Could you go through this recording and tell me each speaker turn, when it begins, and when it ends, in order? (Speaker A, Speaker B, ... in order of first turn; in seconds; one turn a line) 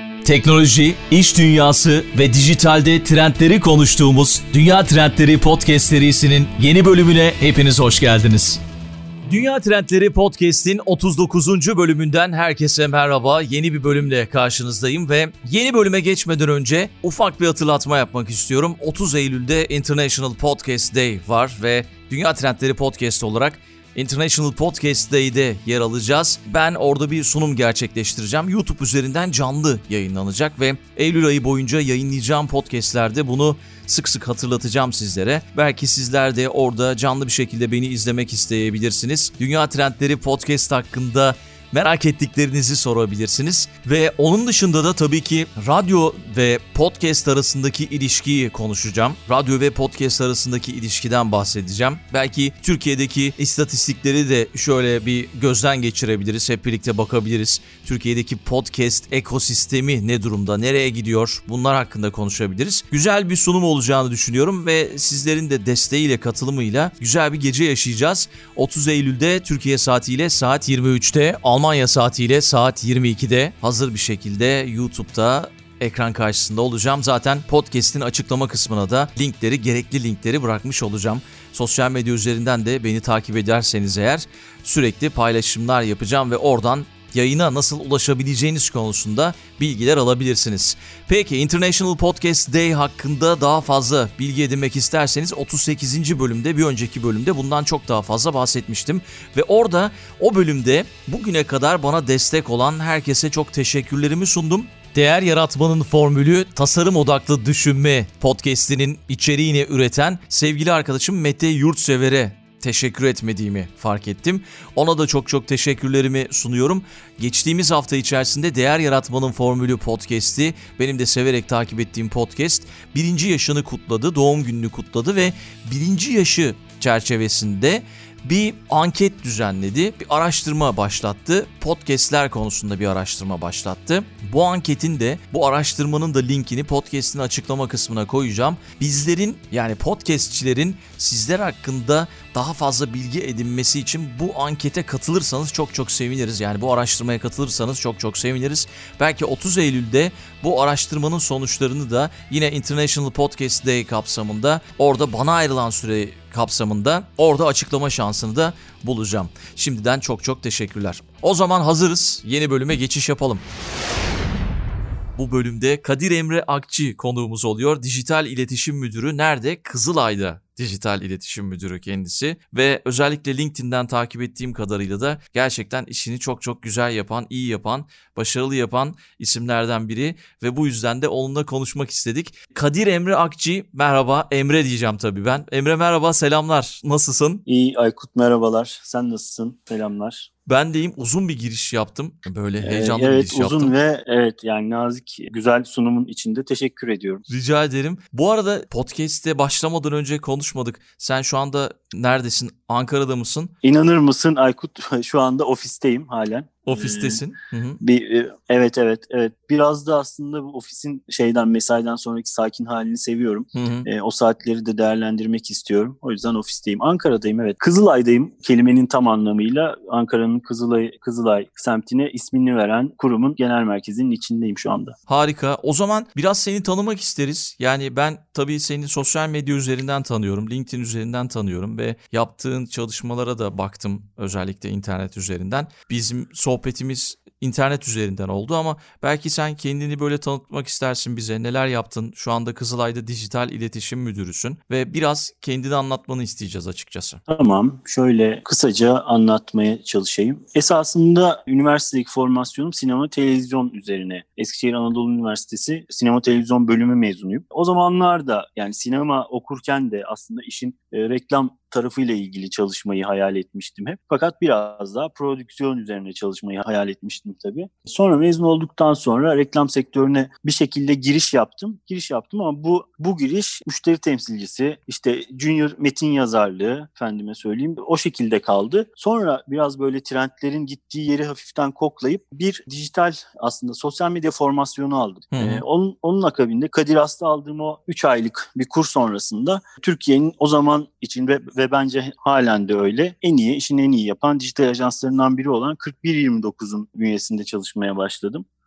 Speaker A: 0.2-8.6
Speaker A: 9.3-163.4
Speaker A: 165.2-187.4
Speaker B: 187.5-190.3
Speaker A: 190.5-193.7
Speaker B: 192.6-197.2
Speaker A: 197.3-203.5
Speaker B: 203.6-207.2
Speaker A: 206.7-207.8
Speaker B: 207.8-224.9
Speaker A: 213.5-213.9
Speaker A: 225.1-247.2
Speaker B: 247.3-298.4
Speaker A: 285.3-285.6